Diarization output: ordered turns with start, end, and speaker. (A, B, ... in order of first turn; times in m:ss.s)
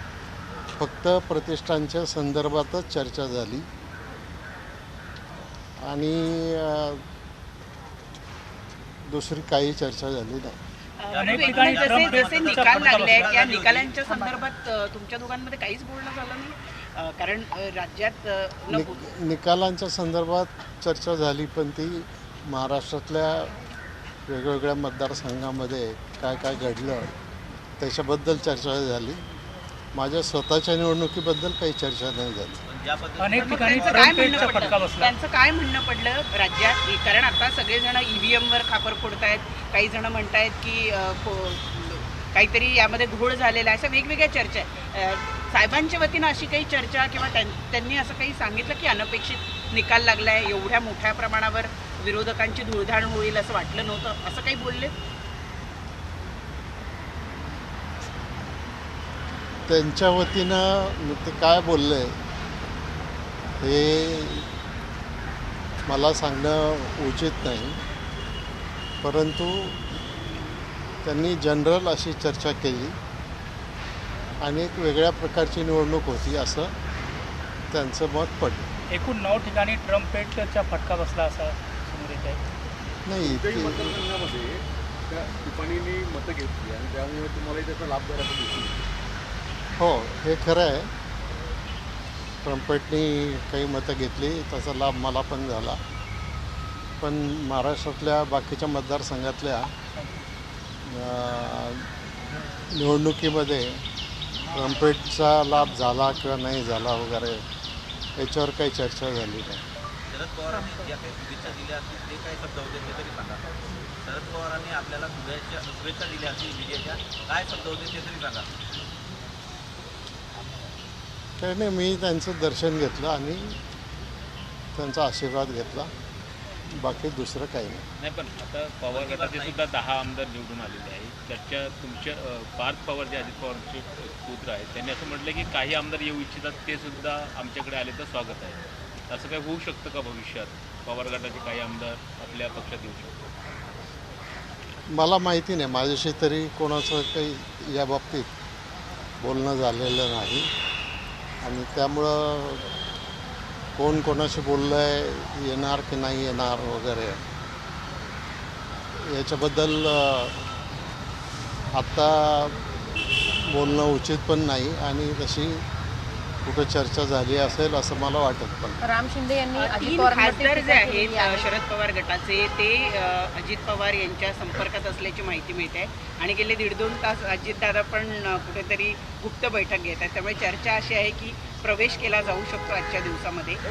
0:00.8-0:03.6 A
0:05.8-0:07.0 A
0:09.1-0:10.6 A
0:11.0-0:19.0 B
0:11.1-0:14.0 C
0:11.2-0:13.4 D
0:14.1-0:14.4 D
0:18.7-0:23.5 A
0:24.3-0:27.1 A
0:27.8-0:29.2 A
0:29.9-0:32.6 A
0:32.7-0:34.8 C
0:33.2-0:35.2 D
0:33.3-0:54.9 B
0:59.7-1:02.1 A
1:03.6-1:04.4 A
1:05.9-1:07.8 A
1:09.0-1:09.8 A
1:11.0-1:13.0 A
1:14.4-1:16.7 A
1:17.7-1:18.6 A
1:18.9-1:22.4 D
1:23.0-1:24.0 A
1:23.2-1:28.8 E
1:29.8-1:30.9 A
1:32.4-1:35.8 A
1:37.0-1:39.7 A
1:40.8-1:41.9 A
1:42.7-1:43.8 A
1:44.5-1:47.4 A
1:48.2-1:49.6 A
1:50.1-1:53.4 C
1:54.0-1:58.5 C
2:01.4-2:03.6 A
2:04.8-2:05.9 A
2:06.7-2:07.8 A
2:08.0-2:23.2 F
2:08.9-2:09.6 C
2:24.9-2:28.3 A
2:29.2-2:30.5 A
2:31.4-2:32.6 A
2:33.8-2:37.2 A
2:39.0-2:40.4 A
2:41.7-2:42.5 A
2:43.5-2:45.6 A
2:46.4-2:48.8 A
2:48.8-2:51.5 G
2:49.6-3:03.6 B